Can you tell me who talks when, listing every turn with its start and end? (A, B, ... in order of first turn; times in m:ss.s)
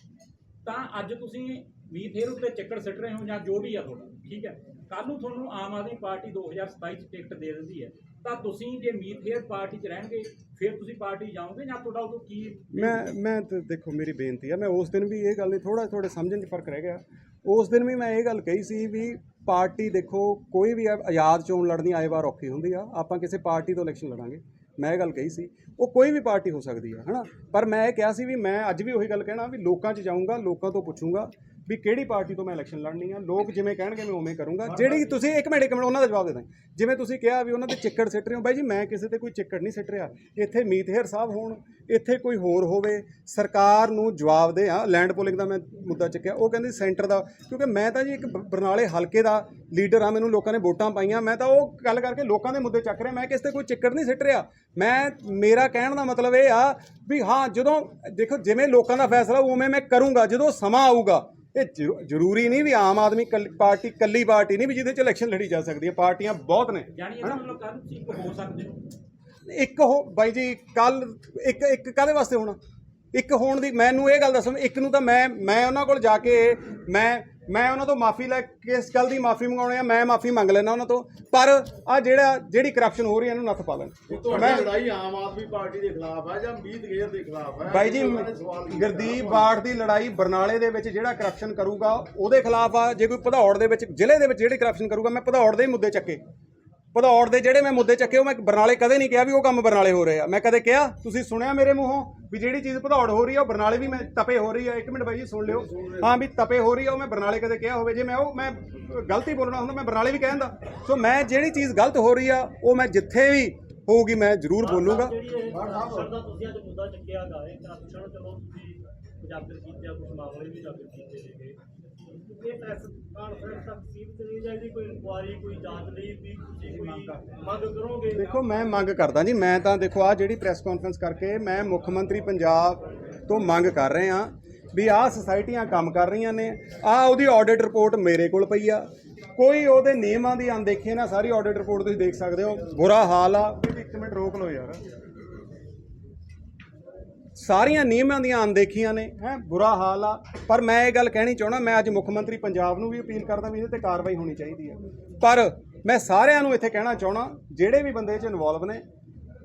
0:00.6-0:13.0 A
0:12.7-1:07.4 B
1:06.9-1:08.8 A
1:09.4-1:12.6 B
1:13.1-1:24.7 B
1:24.1-1:29.5 C
1:27.7-1:36.2 B
1:36.9-1:55.1 B
1:45.8-1:46.0 C
1:54.6-2:08.5 D
1:55.5-1:56.1 C
2:08.1-2:24.8 B
2:27.4-2:38.8 B